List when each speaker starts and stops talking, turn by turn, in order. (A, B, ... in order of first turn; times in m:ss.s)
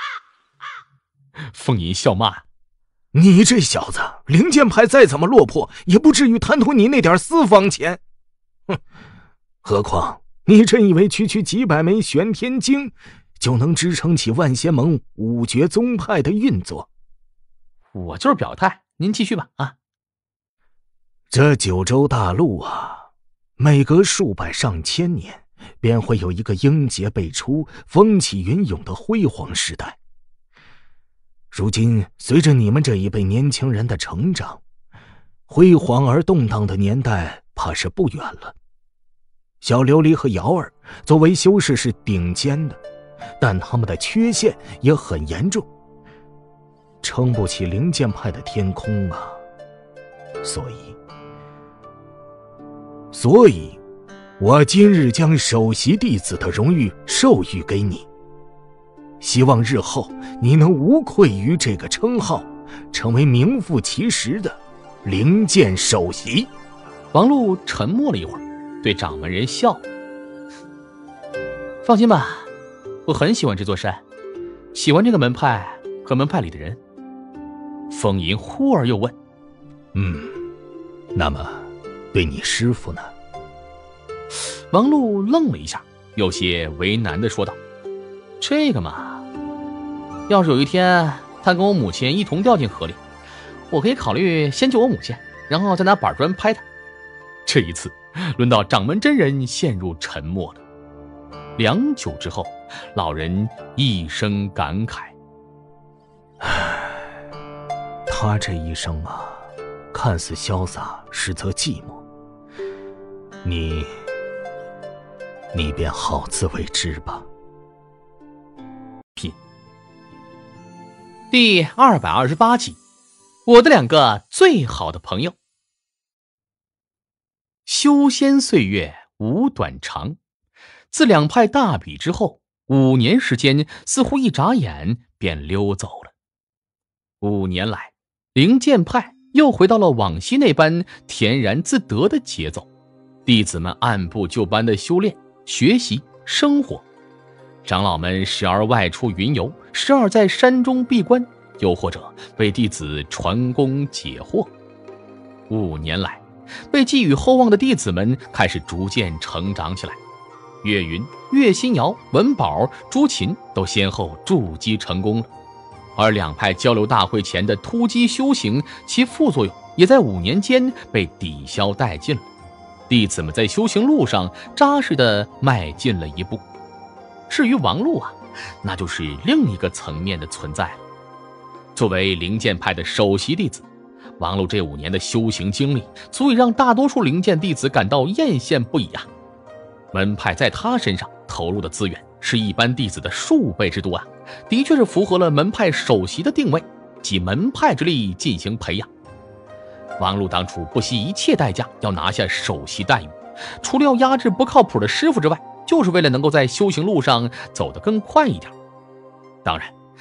0:01.5-0:02.4 A
0:03.1-0:08.0 B
0:09.6-0:16.9 B
0:17.9-0:19.7 A
0:21.3-0:30.0 B
0:31.5-0:34.6 B
0:35.5-0:38.6 B
0:39.6-0:42.8 B
0:43.4-0:45.7 B
0:47.0-0:49.4 B
0:50.4-0:51.0 B
0:53.1-0:53.8 B
0:54.4-0:58.1 B
0:59.2-1:06.5 B
1:07.1-1:09.8 A
1:11.8-1:12.5 A
1:13.1-1:14.0 A
1:14.7-1:16.8 A
1:17.9-1:19.2 A
1:19.9-1:20.4 B
1:21.1-1:23.1 B
1:24.7-1:27.6 A
1:28.4-1:29.2 A
1:30.3-1:33.0 A
1:33.7-1:36.6 A
1:37.4-1:40.6 A
1:41.6-1:45.2 A
1:46.4-1:46.9 B
1:48.1-1:52.0 B
1:53.4-1:53.9 B
1:55.5-1:57.3 B
2:01.3-2:02.8 A
2:03.4-2:05.4 A
2:07.6-2:10.2 A
2:10.9-2:16.1 A
2:17.2-2:22.7 A
2:23.3-2:26.8 A
2:27.6-2:34.5 A
2:35.5-2:40.0 A
2:40.6-2:45.3 A
2:46.0-2:52.2 A
2:52.9-2:56.4 A
2:57.3-3:00.8 A
3:01.7-3:03.6 A
3:04.2-3:09.1 A
3:09.9-3:18.9 A
3:20.0-3:28.5 A
3:29.4-3:29.7 A